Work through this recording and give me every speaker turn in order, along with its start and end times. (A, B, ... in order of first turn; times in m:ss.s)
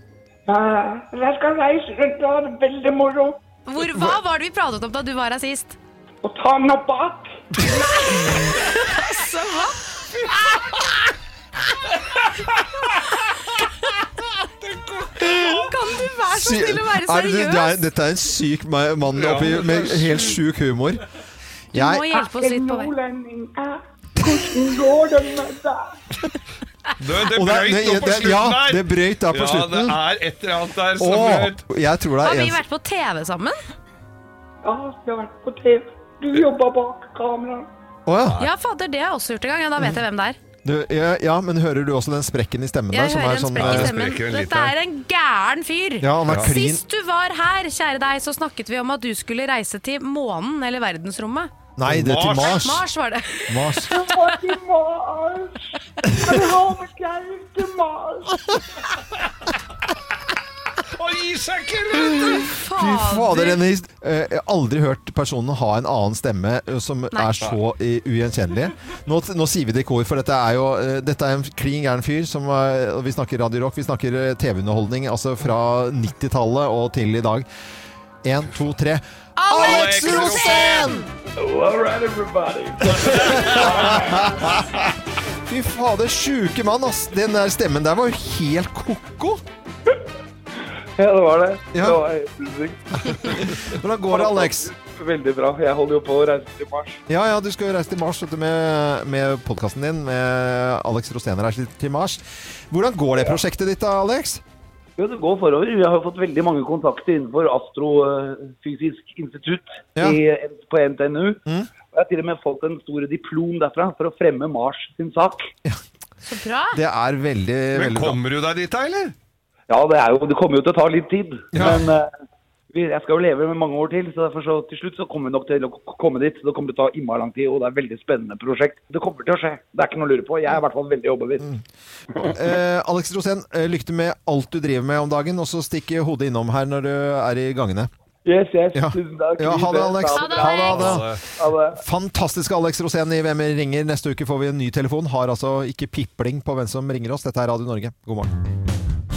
0:00.5-0:03.4 A
0:03.7-0:05.8 B
0:06.2-0:07.3 A
0:07.7-0:09.8 B
0:14.4-0:15.7 C
0:15.3-0:17.8 B
0:16.3-0:21.0 D
0:19.1-0:20.4 C
0:21.7-0:22.1 D
0:21.7-0:22.9 B
0:22.1-0:26.0 A
0:27.0-0:31.6 C
0:27.2-0:30.0 D
0:31.0-0:32.6 D
0:32.2-0:33.6 B
0:34.6-0:37.7 A
0:38.1-0:38.4 D
0:38.3-0:38.5 C
0:38.4-0:40.4 B
0:40.6-0:43.9 D
0:42.9-0:51.5 B
0:43.6-0:44.7 C
0:46.0-0:46.8 D
0:51.8-0:52.8 D
0:51.9-0:52.7 C
0:52.4-0:54.1 B
0:53.5-0:54.0 D
0:53.8-0:58.6 A
1:00.8-1:02.5 C
1:02.2-1:03.6 B
1:02.7-1:17.5 D
1:18.2-1:21.1 D
1:19.4-1:21.0 B
1:19.5-1:21.0 C
1:21.4-1:24.6 E
1:23.2-1:24.5 D
1:25.4-1:29.4 D
1:31.0-1:37.0 E
1:31.7-1:32.0 D
1:33.2-1:34.7 D
1:37.1-1:44.4 D
1:45.0-1:55.5 E
1:56.2-1:56.8 B
1:56.7-1:58.2 D
1:57.7-1:59.2 C
1:59.7-2:02.1 E
2:01.5-2:01.9 D
2:02.7-2:11.5 E
2:12.2-2:17.9 D
2:18.2-2:21.8 E
2:18.7-2:21.2 D
2:20.1-2:21.0 B
2:20.7-2:21.2 C
2:21.7-2:28.3 D